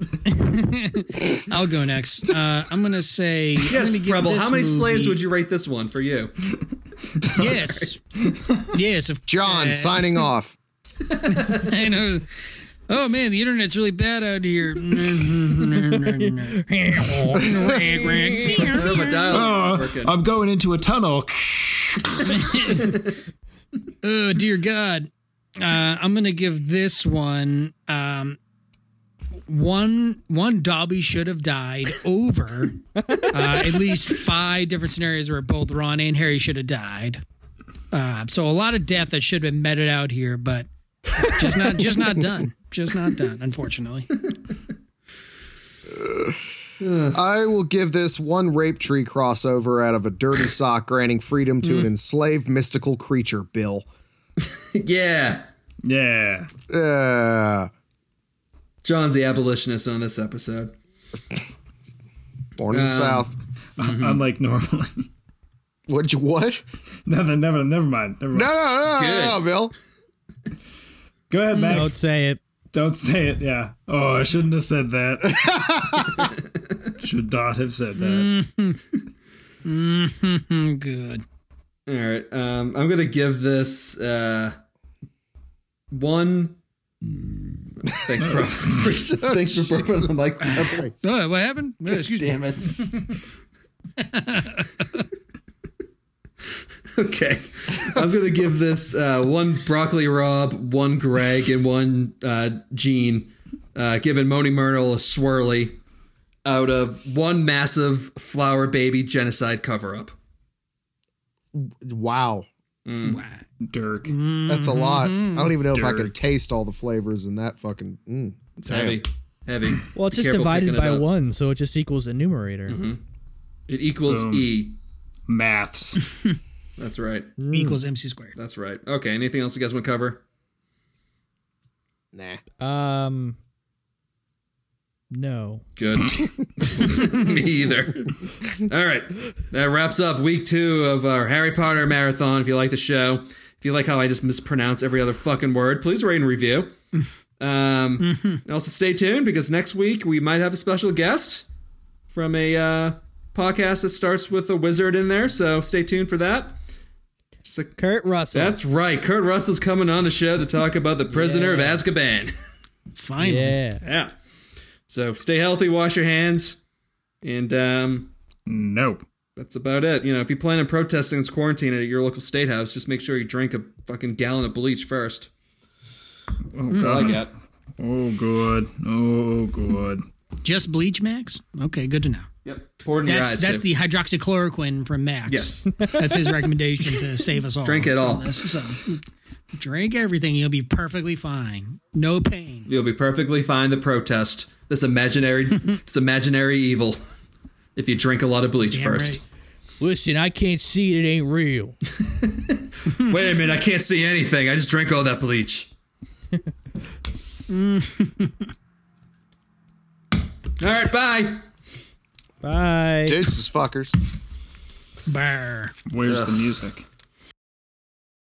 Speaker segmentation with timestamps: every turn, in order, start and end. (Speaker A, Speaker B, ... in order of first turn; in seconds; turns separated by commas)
Speaker A: 0.2-5.2, Speaker B: 3.6-6.4, Speaker C: 7.1-7.6, Speaker A: 7.3-8.0, Speaker C: 8.2-8.7, Speaker A: 8.7-10.2, Speaker D: 9.3-10.6, Speaker B: 11.2-11.7, Speaker A: 11.3-19.4, Speaker E: 16.6-18.7, Speaker B: 18.5-20.1, Speaker C: 19.3-22.3, Speaker A: 22.2-23.0, Speaker A: 24.0-28.4, Speaker A: 29.5-32.8, Speaker E: 33.0-33.9, Speaker A: 33.3-37.2, Speaker A: 37.9-44.1, Speaker D: 45.9-46.4, Speaker B: 46.8-47.2, Speaker D: 47.1-53.9, Speaker B: 54.4-55.5, Speaker C: 55.8-56.5, Speaker D: 56.7-57.7, Speaker B: 58.8-60.7, Speaker D: 62.6-63.3, Speaker B: 62.7-63.3, Speaker C: 63.8-65.1, Speaker B: 63.8-64.2, Speaker D: 65.9-66.6, Speaker C: 67.0-68.6, Speaker D: 68.3-69.7, Speaker B: 68.9-69.4, Speaker C: 71.3-72.0, Speaker A: 71.5-71.8, Speaker E: 71.7-72.4, Speaker C: 72.7-75.9, Speaker D: 75.4-76.2, Speaker C: 77.0-78.3, Speaker A: 78.0-78.8, Speaker A: 79.6-81.2, Speaker B: 81.9-84.6, Speaker B: 85.9-86.6, Speaker B: 87.9-91.0, Speaker C: 88.2-89.0, Speaker D: 89.2-90.9, Speaker A: 90.4-93.1, Speaker B: 92.2-92.7, Speaker A: 94.0-95.0, Speaker B: 96.9-105.8, Speaker B: 106.4-110.1, Speaker D: 111.5-112.5, Speaker B: 112.8-113.2, Speaker A: 113.0-113.4, Speaker C: 113.6-114.2, Speaker A: 114.0-115.6, Speaker D: 114.5-119.0, Speaker C: 115.7-116.1, Speaker B: 118.6-121.0, Speaker E: 119.9-122.8, Speaker B: 122.7-123.0, Speaker B: 123.7-124.8, Speaker C: 124.0-124.6, Speaker C: 125.3-126.1, Speaker B: 126.8-127.3, Speaker E: 127.4-127.8, Speaker A: 127.5-128.3, Speaker B: 128.3-130.2, Speaker D: 132.1-132.4, Speaker E: 132.6-133.4, Speaker E: 135.1-135.6, Speaker B: 135.8-146.7, Speaker B: 147.4-151.4, Speaker A: 148.1-148.4, Speaker B: 152.1-156.6, Speaker B: 157.4-157.8, Speaker E: 157.8-158.6, Speaker B: 158.3-162.3, Speaker E: 161.1-161.8, Speaker A: 162.9-163.6, Speaker E: 163.2-163.8, Speaker B: 163.8-164.1, Speaker B: 164.9-166.6, Speaker B: 167.2-168.1, Speaker C: 168.4-169.0, Speaker B: 169.3-175.3, Speaker C: 176.5-177.3, Speaker B: 176.7-177.3, Speaker A: 176.8-177.1, Speaker C: 177.8-180.0, Speaker A: 180.4-182.3, Speaker B: 182.4-183.7, Speaker A: 183.1-189.0, Speaker B: 185.3-186.1, Speaker B: 187.6-188.4, Speaker A: 189.5-192.7, Speaker B: 192.7-197.0, Speaker B: 197.8-199.2, Speaker A: 198.7-199.2, Speaker E: 199.8-201.8, Speaker B: 202.0-205.7, Speaker A: 207.5-208.5, Speaker B: 210.6-211.4, Speaker E: 212.4-213.3, Speaker D: 213.1-213.9, Speaker A: 215.1-215.8, Speaker C: 215.9-216.8